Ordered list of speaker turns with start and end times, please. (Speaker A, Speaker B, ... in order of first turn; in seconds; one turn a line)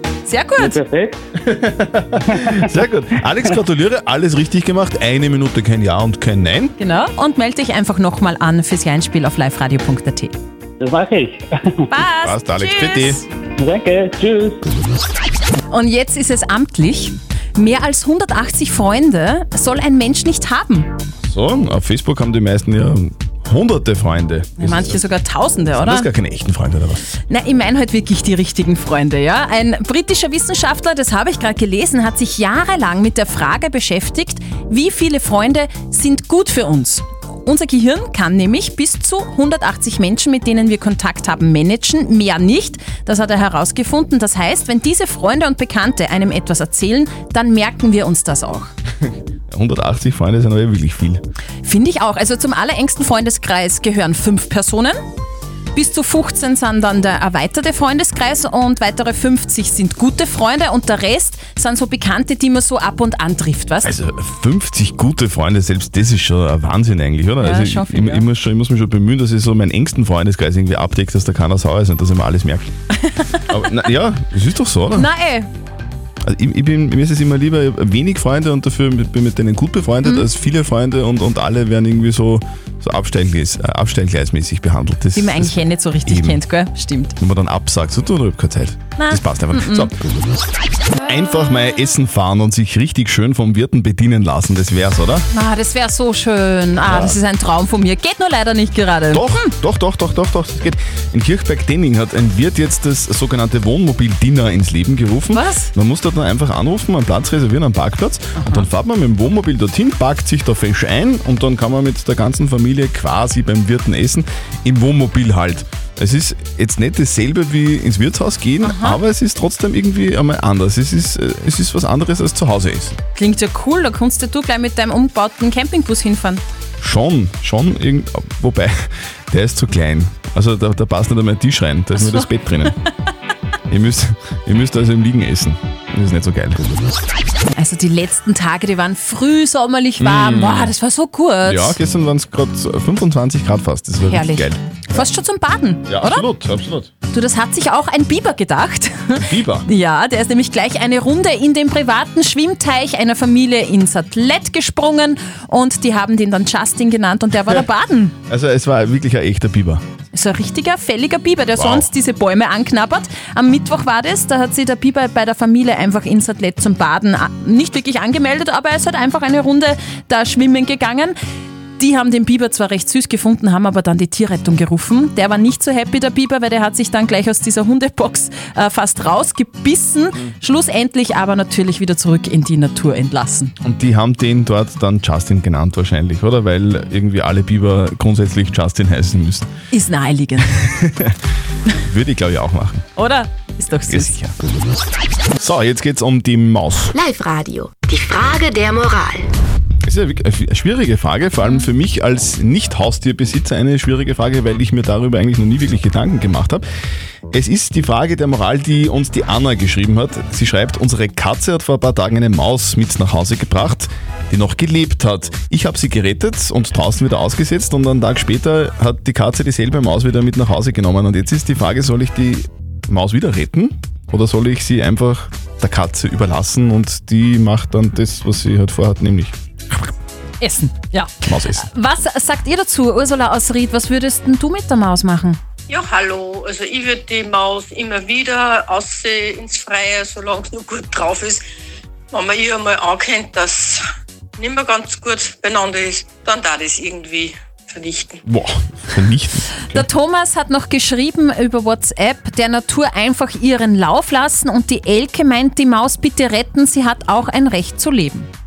Speaker A: 0.2-0.8
Speaker B: 0.6-1.2
Speaker C: 1.4-6.7
Speaker A: 6.8-10.3
Speaker B: 10.8-11.4
Speaker A: 11.9-13.2
Speaker C: 12.2-13.2
Speaker B: 13.6-14.7
Speaker A: 15.7-20.9
Speaker C: 21.2-25.0
Speaker A: 24.6-26.1
Speaker C: 25.8-27.1
Speaker A: 27.3-48.7
Speaker C: 49.5-51.2
Speaker A: 51.6-55.0
Speaker A: 55.7-63.9
Speaker C: 63.8-72.7
Speaker A: 67.4-68.2
Speaker A: 73.1-73.4
Speaker C: 73.5-75.1
Speaker A: 74.9-75.5
Speaker C: 76.2-86.4
Speaker A: 85.1-87.1
Speaker C: 87.2-89.9
Speaker A: 89.0-89.9
Speaker C: 91.0-95.2
Speaker A: 95.3-99.5
Speaker C: 96.8-97.2
Speaker C: 99.1-123.0
Speaker A: 105.3-105.7
Speaker A: 108.3-108.7
Speaker A: 118.6-119.0
Speaker A: 123.1-126.4
Speaker C: 126.8-132.8
Speaker C: 133.7-136.6
Speaker A: 137.5-141.8
Speaker C: 140.0-140.7
Speaker C: 141.4-144.6
Speaker A: 144.1-146.3
Speaker C: 145.9-146.9
Speaker A: 147.1-158.1
Speaker C: 149.1-149.7
Speaker C: 158.3-159.8
Speaker A: 160.1-171.2
Speaker C: 161.6-161.9
Speaker A: 171.8-183.5
Speaker C: 183.6-189.5
Speaker A: 189.7-190.6
Speaker C: 190.7-191.1
Speaker C: 191.8-192.9
Speaker A: 192.9-194.1
Speaker C: 193.9-194.3
Speaker C: 195.4-196.9
Speaker D: 196.9-199.3
Speaker C: 199.8-206.6
Speaker C: 207.3-229.3
Speaker A: 230.4-235.4
Speaker C: 231.2-231.7
Speaker E: 235.7-241.3
Speaker E: 242.1-243.6
Speaker E: 244.4-248.1
Speaker C: 248.2-249.8
Speaker A: 249.7-258.3